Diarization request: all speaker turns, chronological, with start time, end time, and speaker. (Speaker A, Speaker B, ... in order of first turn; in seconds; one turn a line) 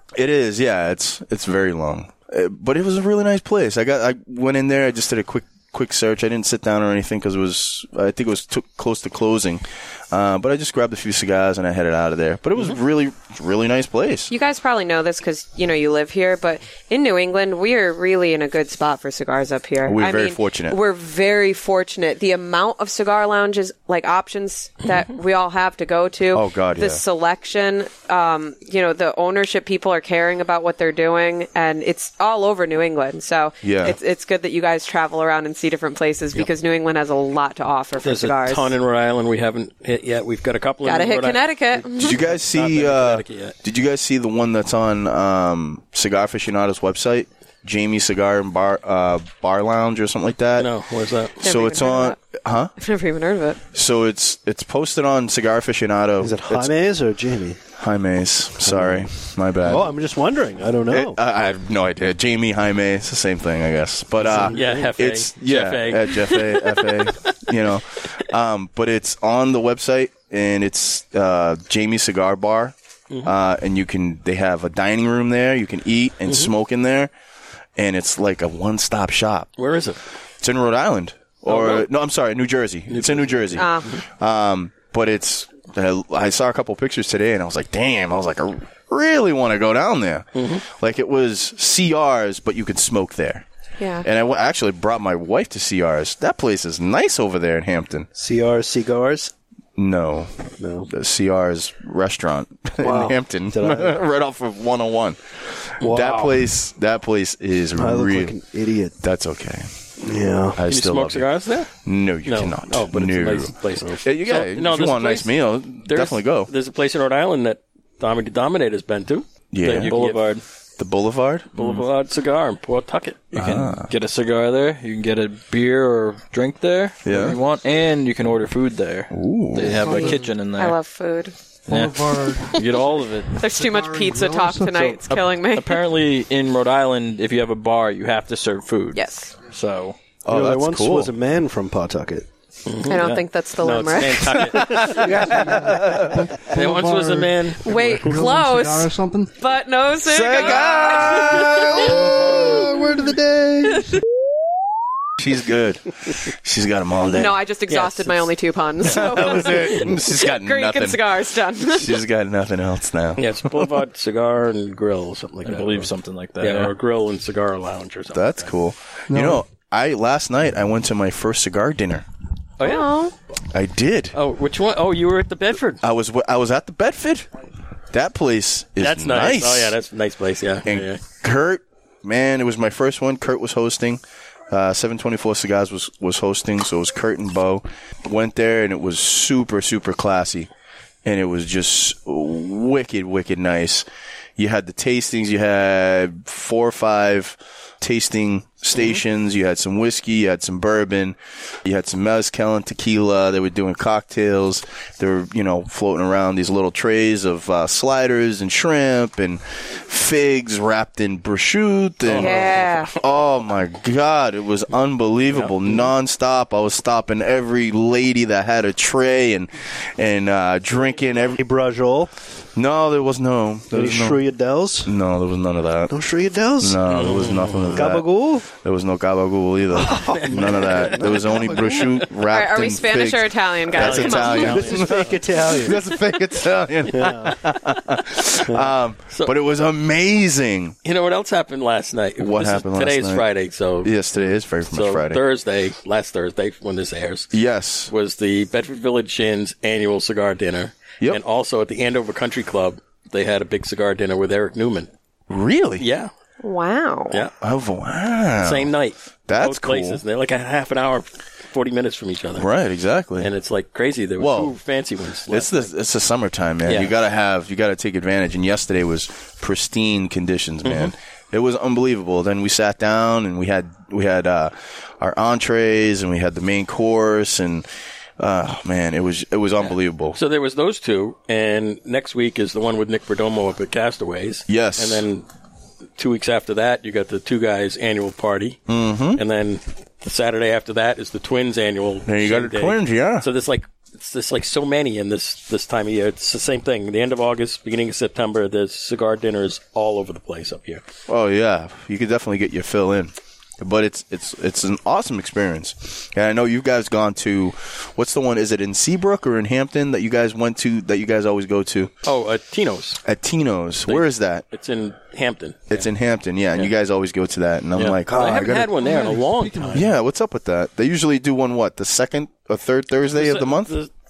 Speaker A: 0.1-14.3
Speaker B: 14.3-38.7
Speaker A: 19.8-20.8
Speaker A: 26.3-27.0
Speaker A: 33.6-34.0
Speaker C: 38.0-43.5
Speaker B: 40.8-42.2
Speaker A: 42.0-50.7
Speaker C: 50.6-51.4
Speaker A: 51.4-52.7
Speaker B: 51.4-52.2
Speaker B: 52.8-53.6
Speaker A: 53.7-56.7
Speaker D: 56.2-57.6
Speaker A: 57.8-59.9
Speaker D: 58.6-61.2
Speaker A: 60.9-77.1
Speaker D: 64.2-64.9
Speaker C: 64.5-67.3
Speaker A: 77.8-79.5
Speaker C: 79.6-80.0
Speaker A: 80.4-93.4
Speaker C: 81.5-81.9
Speaker C: 82.9-84.0
Speaker B: 83.6-83.8
Speaker C: 90.3-90.6
Speaker B: 93.8-94.0
Speaker A: 94.0-98.1
Speaker D: 98.1-99.3
Speaker A: 99.8-108.3
Speaker D: 100.6-100.9
Speaker D: 102.8-104.0
Speaker D: 105.8-106.4
Speaker D: 107.8-108.9
Speaker A: 109.0-109.7
Speaker D: 110.0-110.6
Speaker A: 110.5-116.5
Speaker C: 110.7-111.7
Speaker C: 112.2-120.2
Speaker A: 119.5-119.9
Speaker E: 119.8-120.4
Speaker A: 120.8-121.7
Speaker C: 121.5-123.4
Speaker E: 123.3-130.8
Speaker A: 123.3-123.9
Speaker A: 127.0-127.4
Speaker A: 129.1-130.1
Speaker F: 129.8-130.3
Speaker B: 130.5-131.3
Speaker F: 131.7-132.6
Speaker E: 131.7-133.3
Speaker B: 133.3-135.8
Speaker F: 133.4-135.0
Speaker E: 135.4-139.9
Speaker B: 138.9-139.3
Speaker A: 140.2-141.1
Speaker D: 140.3-142.3
Speaker C: 142.7-143.0
Speaker B: 142.8-144.8
Speaker E: 142.9-143.2
Speaker C: 143.6-145.2
Speaker A: 144.6-146.3
Speaker D: 145.0-145.4
Speaker F: 145.3-149.3
Speaker C: 146.5-147.6
Speaker B: 147.6-152.6
Speaker A: 150.1-153.0
Speaker F: 151.8-153.9
Speaker A: 155.2-157.4
Speaker B: 157.1-162.0
Speaker C: 157.7-158.2
Speaker A: 158.8-163.7
Speaker C: 163.2-168.5
Speaker E: 165.4-166.7
Speaker A: 168.1-172.0
Speaker F: 169.1-169.4
Speaker C: 172.6-172.9
Speaker B: 172.6-173.1
Speaker A: 173.5-174.2
Speaker C: 174.1-175.8
Speaker A: 175.8-177.3
Speaker A: 177.9-179.8
Speaker C: 178.8-181.0
Speaker A: 180.7-190.5
Speaker A: 191.0-193.8
Speaker A: 194.4-221.4
Speaker C: 212.1-212.7
Speaker B: 212.2-212.9
Speaker C: 215.3-215.9
Speaker D: 221.4-222.1
Speaker A: 222.5-224.2
Speaker D: 223.7-224.9
Speaker A: 224.8-225.9
Speaker D: 225.9-226.8
Speaker A: 226.6-240.8
Speaker C: 226.9-227.8
Speaker D: 227.7-228.5
Speaker D: 229.7-232.0
Speaker C: 229.9-232.0
Speaker B: 232.3-234.7
Speaker C: 233.8-235.2
Speaker D: 234.4-235.8
Speaker D: 236.9-237.4
Speaker C: 240.8-243.9
Speaker A: 242.2-243.2
Speaker A: 243.8-245.2
Speaker C: 244.7-247.3
Speaker A: 247.3-247.9
Speaker C: 247.9-254.9
Speaker A: 255.3-255.8
Speaker C: 255.8-256.1
Speaker B: 256.4-257.2
Speaker A: 257.4-258.7
Speaker C: 258.4-262.5
Speaker A: 259.3-260.0
Speaker A: 262.3-263.3
Speaker C: 263.2-265.7
Speaker A: 264.2-264.6
Speaker A: 265.3-277.7
Speaker C: 266.6-266.9
Speaker C: 270.6-270.9
Speaker A: 278.2-280.2
Speaker C: 279.6-285.2
Speaker A: 284.5-285.0
Speaker C: 286.0-288.6
Speaker A: 288.7-289.2
Speaker C: 289.1-300.8
Speaker A: 292.1-293.3
Speaker A: 301.1-311.9
Speaker C: 312.0-313.0
Speaker A: 313.0-314.4
Speaker C: 313.9-315.9
Speaker A: 315.7-318.7
Speaker C: 317.8-319.9
Speaker F: 318.3-319.8
Speaker A: 319.7-323.8
Speaker C: 323.1-323.9